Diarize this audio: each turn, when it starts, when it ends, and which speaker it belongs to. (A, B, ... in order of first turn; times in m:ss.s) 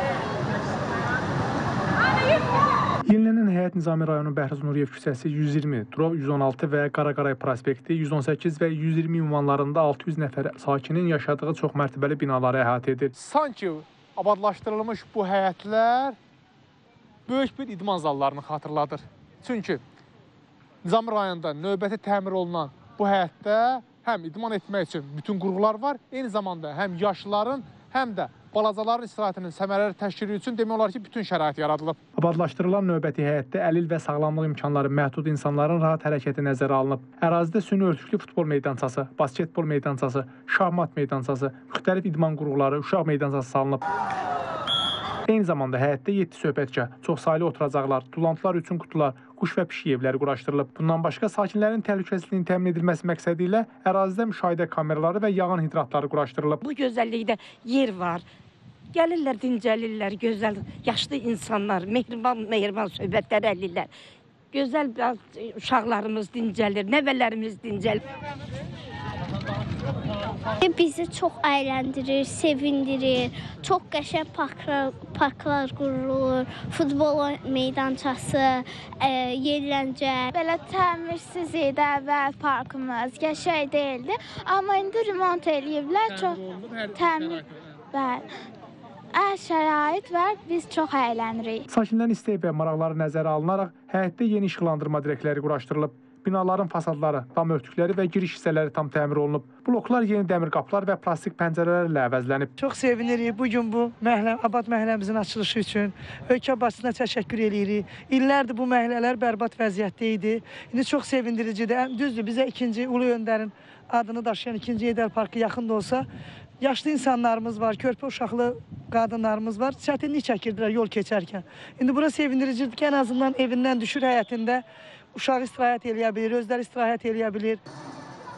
0:03.1-0:13.2 A
0:13.2-0:13.8 B
0:14.4-0:16.1 B
0:14.9-0:15.6 A
0:17.4-0:18.9 B
0:20.9-0:32.0 B
0:22.7-0:28.7 A
0:29.8-0:30.2 A
0:32.2-0:43.8 A
0:45.3-0:56.6 A
0:56.6-0:58.2 C
0:58.9-1:03.9 C
1:04.5-1:08.0 C
1:10.6-1:20.3 D
1:20.3-1:28.3 E
1:29.1-1:31.6 E
1:31.7-1:42.5 A
1:42.6-1:56.0 F
1:56.6-2:07.6 F